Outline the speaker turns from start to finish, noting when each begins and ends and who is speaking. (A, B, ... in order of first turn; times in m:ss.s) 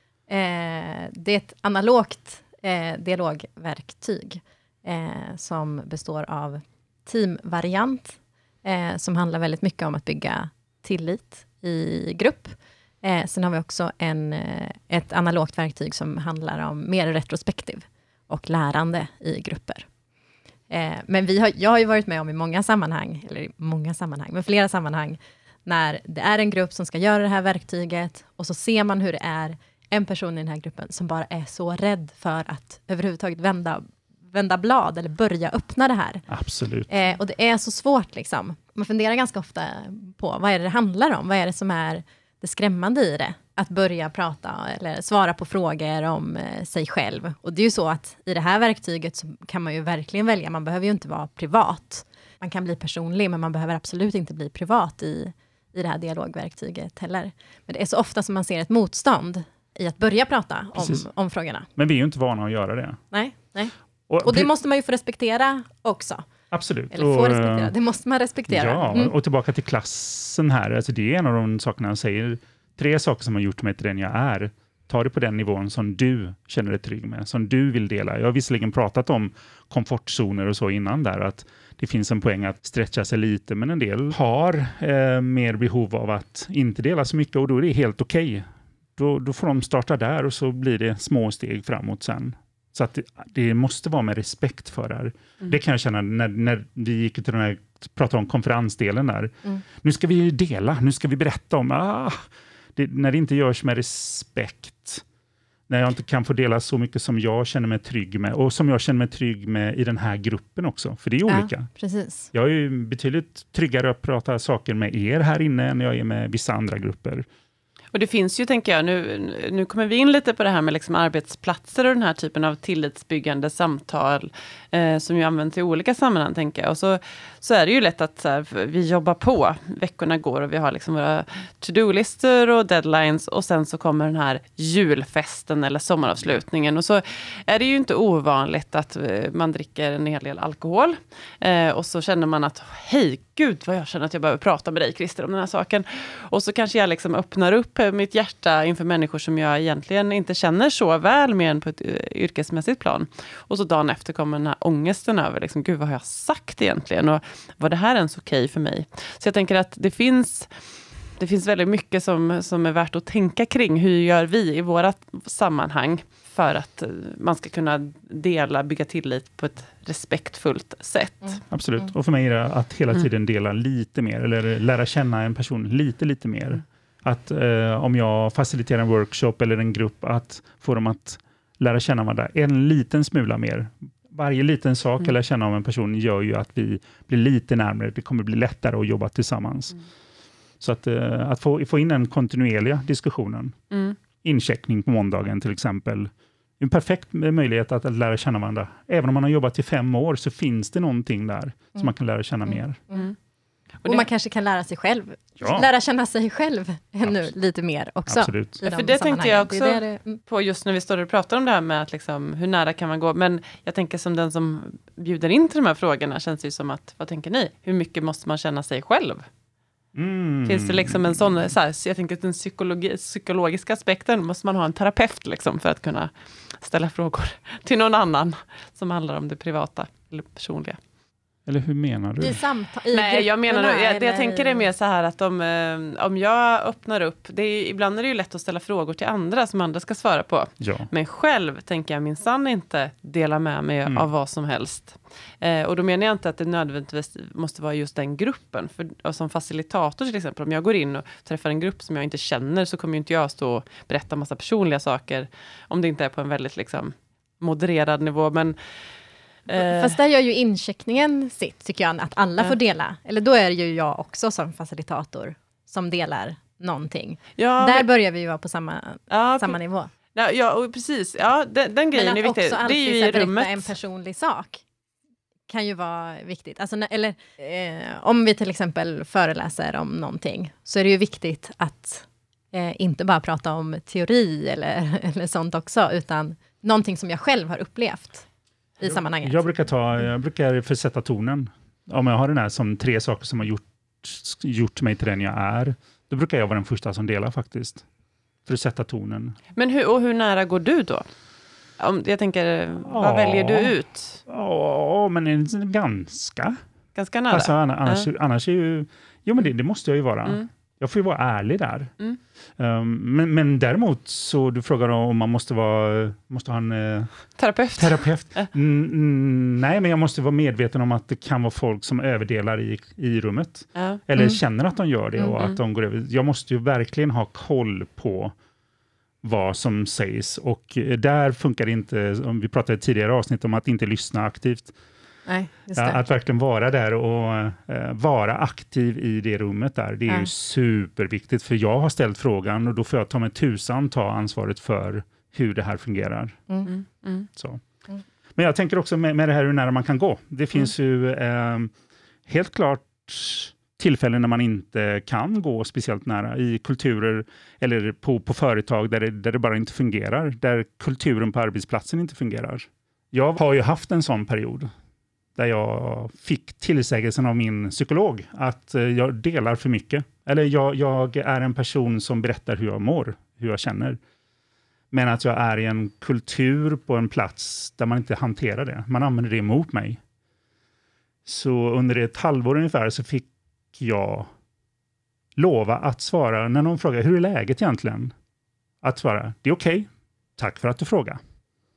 0:00.3-0:19.9 A
0:20.7-0:36.3 A
0:36.3-0:36.9 B
0:36.9-1:01.7 A
1:00.8-1:01.0 B
1:01.8-1:03.0 B
1:03.1-1:06.2 A
1:04.1-1:04.5 B
1:06.5-1:07.7 B
1:06.9-1:09.1 A
1:08.5-1:45.0 B
1:45.7-1:51.7 B
1:51.3-1:52.3 A
1:52.3-1:57.3 B
1:57.9-2:40.5 C
2:41.2-2:51.4 C
2:51.5-3:09.8 B
3:10.6-3:13.6 B
3:13.7-3:14.0 C
3:14.2-3:22.8 B
3:22.5-3:23.0 A
3:23.8-3:30.2 A
3:25.4-3:25.7 B
3:28.1-3:28.6 B
3:28.6-3:39.2 C
3:40.0-3:41.3 B
3:40.5-3:50.8 C
3:51.5-3:52.4 B
3:52.2-3:54.7 A
3:52.9-4:18.6 C
4:00.6-4:00.9 B
4:19.5-4:20.0 C
4:19.5-4:29.9 A
4:27.4-4:27.9 C
4:29.1-4:29.6 C
4:30.1-4:33.7 C
4:31.9-4:34.6 A
4:35.5-4:48.3 A
4:48.8-4:49.6 A
4:48.8-4:57.8 B
4:58.5-4:59.4 B
4:59.6-5:01.0 C
5:01.8-5:04.2 C
5:02.9-5:06.6 B
5:07.0-5:08.1 C
5:07.3-5:11.9 B
5:12.6-5:17.2 B
5:17.4-5:18.1 C
5:17.8-5:28.3 B
5:23.8-5:24.0 C
5:29.2-5:34.7 B
5:35.3-5:36.0 A
5:35.8-5:46.4 B
5:46.7-5:47.3 C
5:47.3-5:47.6 B
5:48.4-5:51.7 B
5:52.3-6:04.7 B
6:05.4-6:14.0 B
6:14.9-6:20.0 B
6:21.3-6:24.3 B
6:25.4-6:28.1 B
6:28.8-6:31.2 B